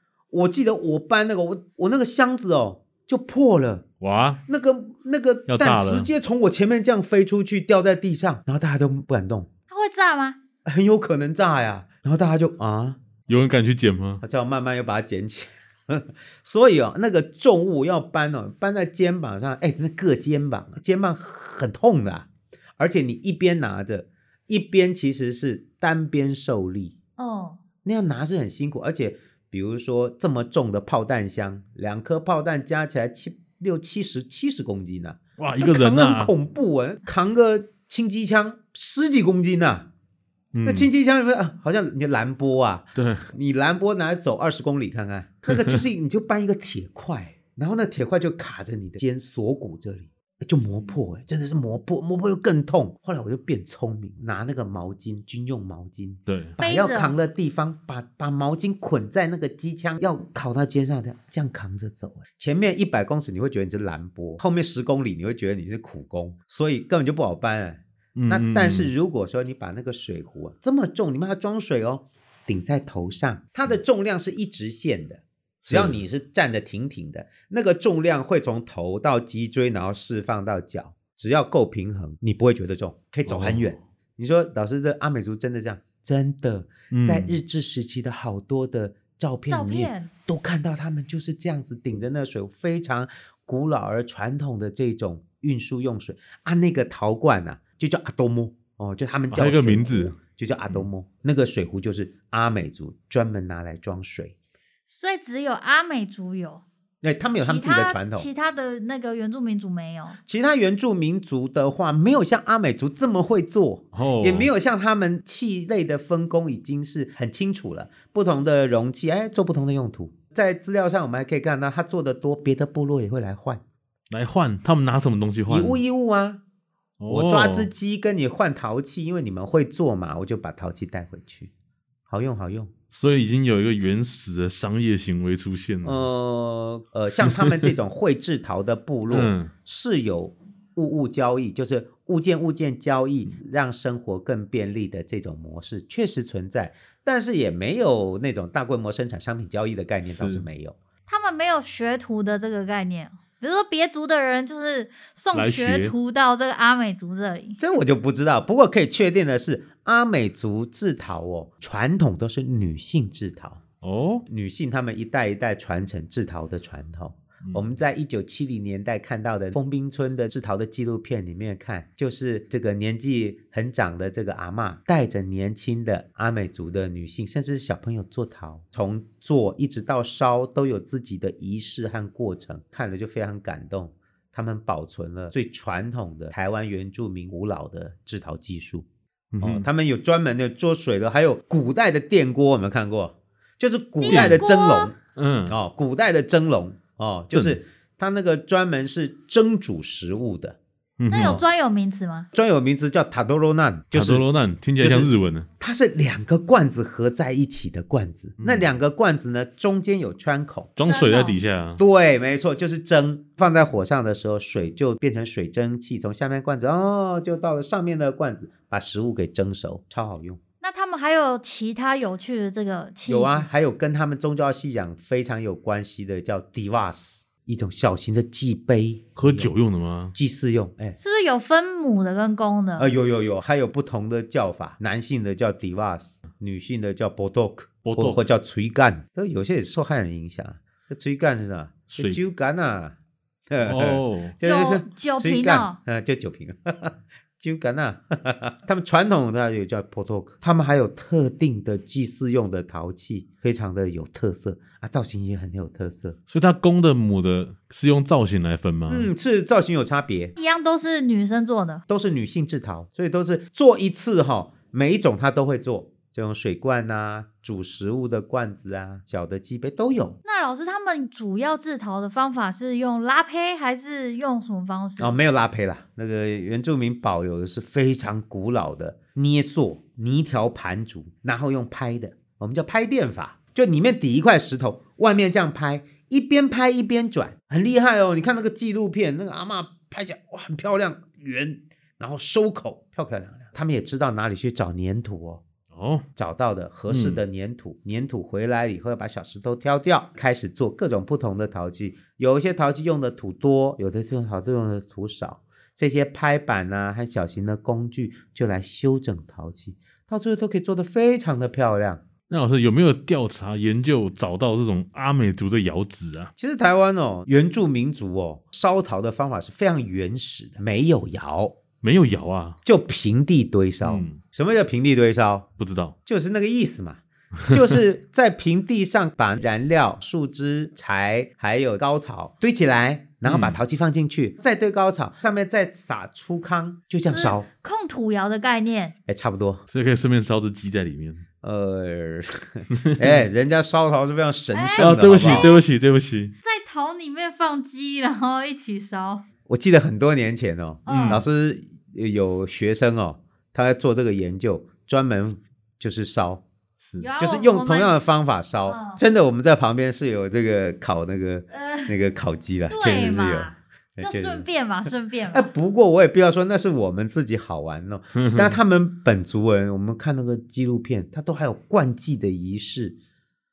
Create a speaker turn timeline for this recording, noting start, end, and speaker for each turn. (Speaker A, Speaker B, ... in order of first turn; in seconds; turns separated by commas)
Speaker A: 0.3-3.8, Speaker B: 4.0-4.4, Speaker A: 4.5-9.5, Speaker B: 5.5-6.1, Speaker C: 9.7-10.4, Speaker A: 10.7-13.0, Speaker B: 13.3-14.2, Speaker A: 14.2-26.9, Speaker C: 27.2-27.6, Speaker A: 27.8-39.9, Speaker B: 35.4-36.3, Speaker B: 40.5-40.9, Speaker A: 40.6-104.3, Speaker B: 42.9-43.2, Speaker B: 45.5-45.8, Speaker B: 56.3-56.6, Speaker C: 56.6-57.1, Speaker B: 68.1-68.9, Speaker B: 75.6-76.0, Speaker B: 83.2-83.8, Speaker B: 86.9-87.4, Speaker C: 89.5-90.1, Speaker B: 99.3-100.1, Speaker C: 104.9-106.6, Speaker A: 107.0-108.3, Speaker C: 107.4-110.2, Speaker A: 110.2-123.6, Speaker B: 113.9-114.5, Speaker B: 124.1-125.8, Speaker A: 125.5-126.4, Speaker B: 127.0-127.7, Speaker A: 127.1-131.5, Speaker A: 132.1-132.7, Speaker B: 132.9-136.1, Speaker A: 135.8-150.8, Speaker B: 137.2-137.7, Speaker B: 139.1-139.5, Speaker B: 150.1-150.4, Speaker C: 151.1-157.6, Speaker B: 155.3-155.9, Speaker A: 157.6-163.6, Speaker B: 163.8-164.2, Speaker A: 164.2-188.8, Speaker B: 167.4-167.7, Speaker B: 189.3-189.7, Speaker A: 189.4-195.0, Speaker C: 194.0-194.9, Speaker B: 194.1-194.4, Speaker B: 195.2-195.5, Speaker A: 195.5-200.6, Speaker B: 197.3-197.6, Speaker B: 201.0-201.4, Speaker C: 201.1-202.3, Speaker A: 201.1-201.4, Speaker A: 202.3-210.7, Speaker B: 203.9-205.5, Speaker B: 208.4-208.7, Speaker B: 210.8-211.8, Speaker C: 210.8-211.4, Speaker A: 211.8-220.4, Speaker C: 220.6-223.5, Speaker A: 223.1-229.5, Speaker B: 229.2-230.1, Speaker A: 230.1-231.0, Speaker C: 231.0-232.9, Speaker A: 232.8-242.9, Speaker B: 237.8-238.2, Speaker B: 241.9-242.2, Speaker A: 243.5-256.2, Speaker B: 243.6-244.3, Speaker C: 244.4-245.8, Speaker B: 256.3-259.1, Speaker A: 258.9-260.3, Speaker C: 260.4-261.8, Speaker A: 261.9-270.2, Speaker C: 270.2-275.1, Speaker A: 275.0-295.4, Speaker B: 295.7-296.1, Speaker A: 296.1-312.0, Speaker B: 296.9-297.2, Speaker B: 312.3-316.3, Speaker A: 316.4-321.6, Speaker B: 321.8-322.6, Speaker A: 322.6-325.5, Speaker B: 323.8-324.2, Speaker B: 325.6-325.9, Speaker A: 326.0-337.4, Speaker B: 333.2-333.6, Speaker C: 337.1-338.9, Speaker A: 339.1-339.6, Speaker B: 339.7-341.2, Speaker A: 341.4-345.5, Speaker B: 342.7-343.2, Speaker C: 344.5-345.6, Speaker B: 344.8-346.3, Speaker C: 346.4-349.2, Speaker A: 349.4-356.4, Speaker C: 350.9-351.2, Speaker B: 350.9-351.2, Speaker B: 356.8-357.1, Speaker C: 357.0-357.9, Speaker A: 357.2-364.4, Speaker C: 358.6-359.0, Speaker C: 361.5-361.9, Speaker C: 362.7-365.5, Speaker A: 365.3-372.9, Speaker B: 368.1-368.6